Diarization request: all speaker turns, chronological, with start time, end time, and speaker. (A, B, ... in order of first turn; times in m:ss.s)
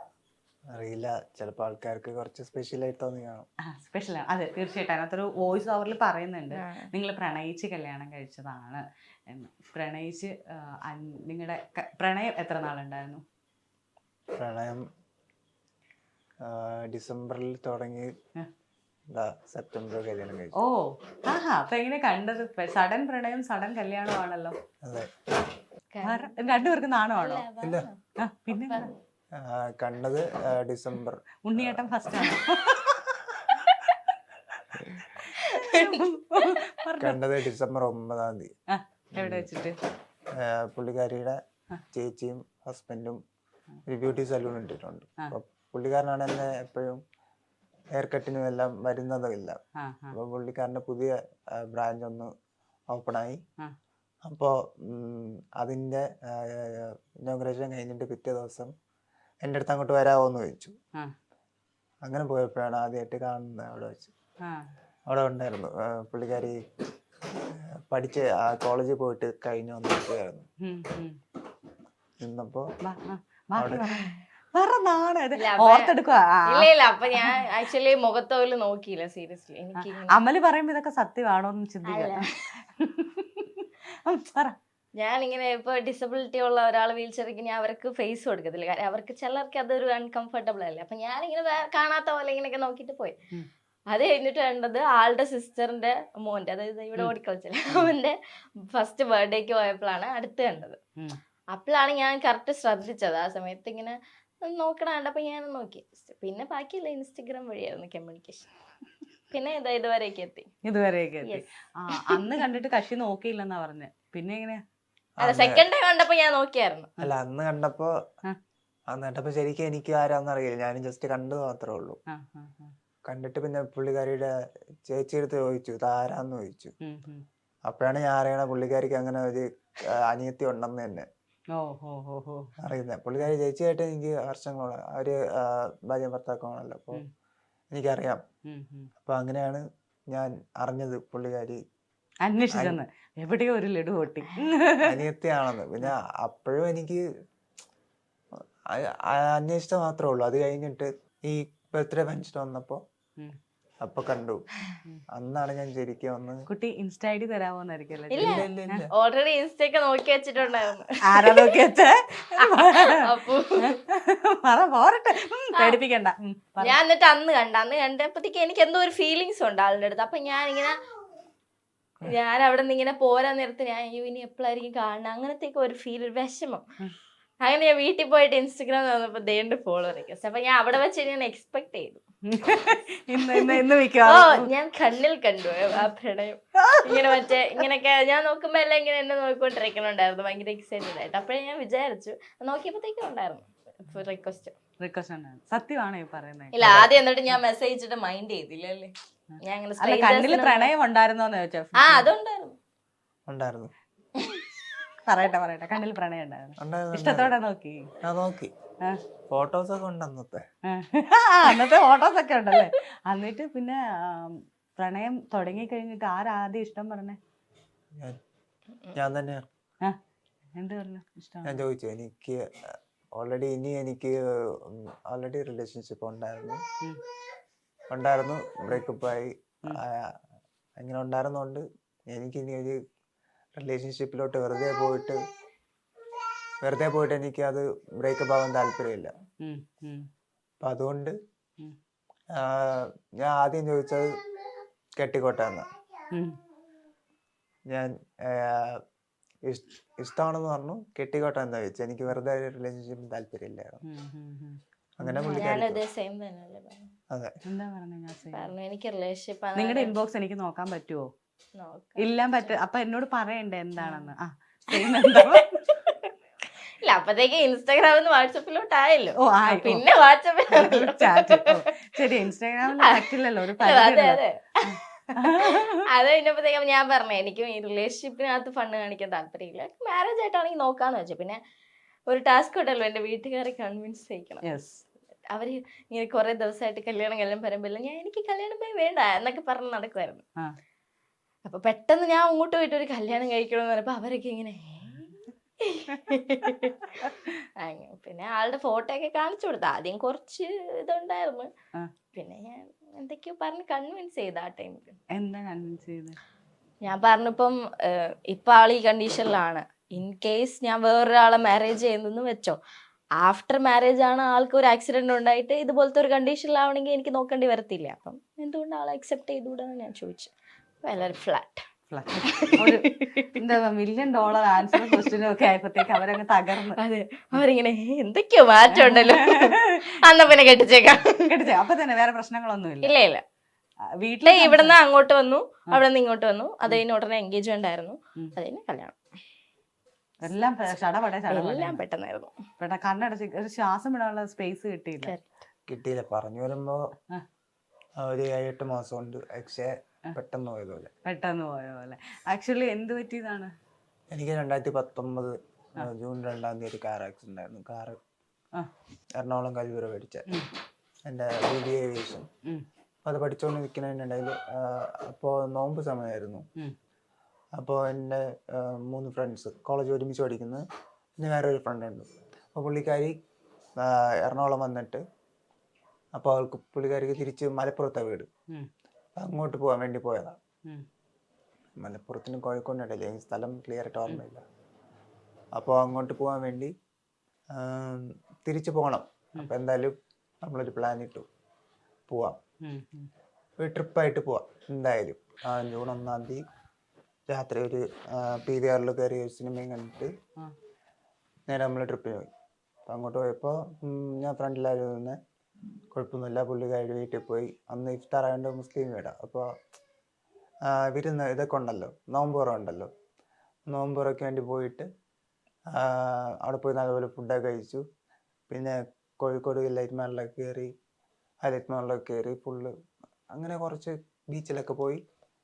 0:00.7-0:03.5 A
0:03.7-0:13.2 B
0:06.5-0:06.9 C
0:14.4-0:14.9 A
0:16.4-0:18.1 A
0:19.1-0:20.6 A
0:20.6-0:24.6 B
0:24.8-0:25.2 A
0:25.9-0:28.0 C
0:26.0-0:27.5 B
0:27.6-0:27.9 A
0:28.2-0:28.9 B
0:28.5-0:28.9 C
0:29.4-0:31.9 A
0:31.4-0:33.8 B
0:34.8-0:35.0 A
0:35.0-0:37.2 B
0:35.4-0:36.5 C
0:37.0-0:38.5 A
0:38.7-0:39.8 B
0:39.2-0:39.5 A
0:40.3-0:41.4 A
0:41.9-0:43.2 A
0:43.9-0:47.0 A
0:47.9-0:49.6 A
0:49.8-0:50.2 B
0:50.1-0:52.3 A
0:52.9-0:53.4 A
0:54.3-0:58.7 A
0:59.4-1:00.8 A
1:02.0-1:04.1 A
1:04.4-1:04.7 B
1:05.1-1:06.6 A
1:07.4-1:10.4 A
1:10.6-1:11.2 B
1:12.2-1:12.7 A
1:12.8-1:17.4 B
1:13.6-1:13.9 A
1:15.4-1:16.0 C
1:16.5-1:20.2 C
1:19.8-1:24.6 B
1:21.8-1:22.4 C
1:25.0-1:33.2 C
1:33.9-1:40.8 C
1:41.5-1:48.5 C
1:49.3-1:50.5 C
1:50.6-1:54.6 B
1:51.2-1:52.2 C
1:55.2-1:55.7 A
1:55.2-1:57.0 C
1:57.0-1:57.9 A
1:58.9-2:02.0 A
2:02.1-2:02.7 B
2:03.1-2:04.3 A
2:04.9-2:06.7 A
2:06.8-2:07.3 B
2:07.7-2:11.1 A
2:11.5-2:12.5 B
2:12.6-2:17.0 A
2:17.7-2:18.2 A
2:18.5-2:18.9 B
2:19.0-2:21.6 A
2:22.2-2:24.9 B
2:22.5-2:22.8 A
2:24.8-2:27.0 A
2:28.7-2:32.8 A
2:33.8-2:34.4 A
2:35.1-2:36.5 A
2:36.5-2:38.8 B
2:38.1-2:41.6 C
2:38.2-2:38.9 A
2:41.1-2:46.8 B
2:42.4-2:43.8 C
2:46.6-2:50.8 C
2:52.0-2:56.6 C
2:57.4-3:02.0 C
3:02.3-3:04.5 B
3:03.2-3:14.6 C
3:06.6-3:07.3 B
3:14.8-3:16.6 B
3:16.5-3:20.7 C
3:16.6-3:17.0 A
3:19.8-3:22.1 B
3:21.8-3:22.6 C
3:23.3-3:23.7 A
3:25.0-3:27.9 B
3:26.6-3:27.4 A
3:28.0-3:28.5 A
3:29.3-3:30.4 A
3:30.7-3:37.2 B
3:38.9-3:39.4 A
3:40.6-3:41.6 B
3:41.4-3:46.6 A
3:47.9-3:50.2 A
3:50.8-3:52.8 A
3:53.6-3:55.2 A
3:56.6-3:59.1 A
3:59.4-4:00.1 B
4:00.6-4:01.2 A
4:02.4-4:04.2 A
4:05.0-4:05.7 A
4:06.1-4:06.4 B
4:07.7-4:08.8 A
4:09.4-4:13.8 A
4:13.8-4:15.5 B
4:15.0-4:15.8 A
4:15.3-4:16.9 C
4:17.4-4:18.5 B
4:18.3-4:19.9 C
4:19.6-4:21.1 B
4:21.6-4:22.6 C
4:22.0-4:25.6 B
4:23.8-4:24.1 C
4:24.7-4:26.1 C
4:26.8-4:31.6 C
4:29.2-4:29.8 B
4:30.5-4:35.8 B
4:32.7-4:34.5 C
4:35.1-4:41.4 C
4:42.1-4:44.4 C
4:44.4-4:44.8 B
4:45.3-4:50.2 C
4:51.4-5:01.5 C
5:02.2-5:05.0 C
5:05.1-5:06.2 B
5:06.8-5:12.6 C
5:13.2-5:20.3 C
5:20.8-5:21.7 C
5:21.9-5:26.8 B
5:22.2-5:23.4 C
5:26.8-5:31.4 C
5:28.7-5:29.8 B
5:31.0-5:32.9 B
5:32.8-5:33.2 C
5:34.0-5:34.8 B
5:34.2-5:39.0 C
5:40.2-5:41.8 B
5:41.3-5:42.3 C
5:42.6-5:45.1 B
5:45.7-5:46.9 A
5:48.0-5:50.9 A
5:51.0-5:53.5 B
5:54.1-5:58.0 A
5:59.2-6:00.3 A
6:01.1-6:02.3 A
6:03.0-6:06.4 A
6:07.6-6:10.6 A
6:11.2-6:13.2 A
6:13.8-6:15.0 A
6:16.2-6:18.3 A
6:19.2-6:20.4 A
6:21.8-6:24.4 A
6:25.6-6:26.7 A
6:27.5-6:31.3 A
6:32.1-6:32.4 A
6:32.6-6:33.1 B
6:33.6-6:36.4 A
6:37.3-6:40.1 A
6:41.5-6:42.3 A
6:42.9-6:45.2 A
6:45.9-6:49.5 A
6:50.7-6:52.9 A
6:53.7-6:54.9 A
6:55.7-6:57.8 A
6:58.5-7:00.7 A
7:01.4-7:02.7 A
7:03.3-7:05.0 A